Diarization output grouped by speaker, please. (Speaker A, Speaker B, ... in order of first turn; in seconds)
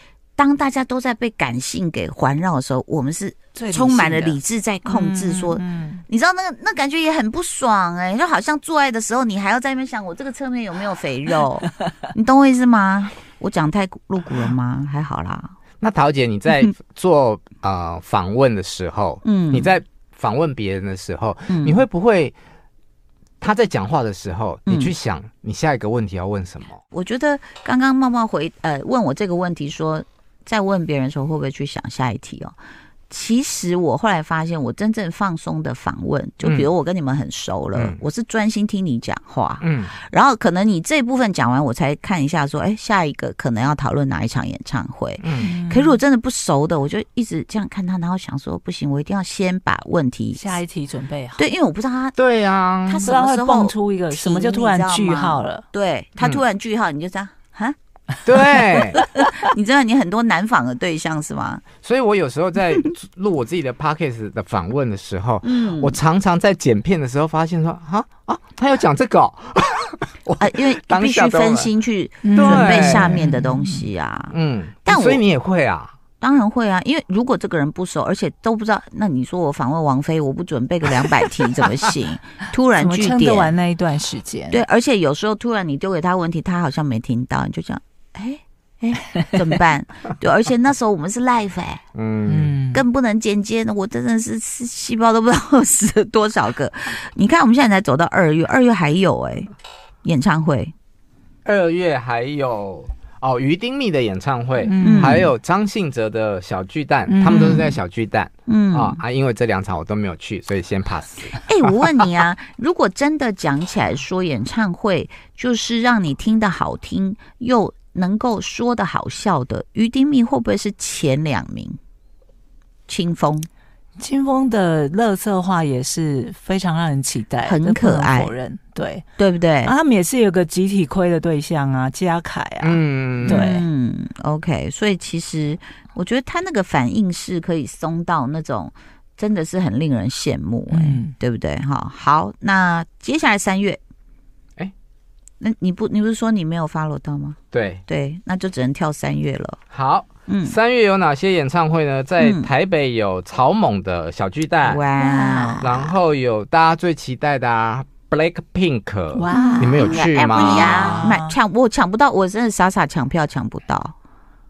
Speaker A: 0.4-15.5, 19.2-19.7, 21.5-21.8, 24.6-24.9, 26.9-32.5, 33.1-50.6, 51.4-52.1, 52.9-57.8, 58.5-61.6, 65.4-66.0, 70.4-75.2, 76.2-83.5, 84.5-91.8, 92.7-99.5, 100.0-100.7, 104.8-105.3, 107.3-107.6, 108.5-109.0, 111.4-121.8, 122.9-123.5, 127.4-128.3, 129.2-129.7, 133.2-143.8, 145.4-149.6, 150.3-150.6, 152.2-152.5, 154.6-155.9, 159.3-163.9
Speaker B: 3.5-6.0, 45.4-46.0, 50.4-51.4, 53.0-55.6, 72.2-73.8, 82.8-84.6, 92.3-92.8, 104.6-105.3, 107.1-107.8, 124.0-129.0, 129.6-133.7, 140.7-141.1, 155.0-155.7, 159.1-161.3
Speaker C: 15.8-22.4, 23.4-26.8, 36.4-36.7, 37.7-38.0, 39.6-39.9, 45.2-45.5, 52.2-53.1, 58.2-59.0, 61.8-71.7, 72.3-73.2, 74.3-75.9, 91.9-92.6, 101.4-111.4, 132.6-133.5, 147.5-147.8, 149.7-154.8, 155.6-161.1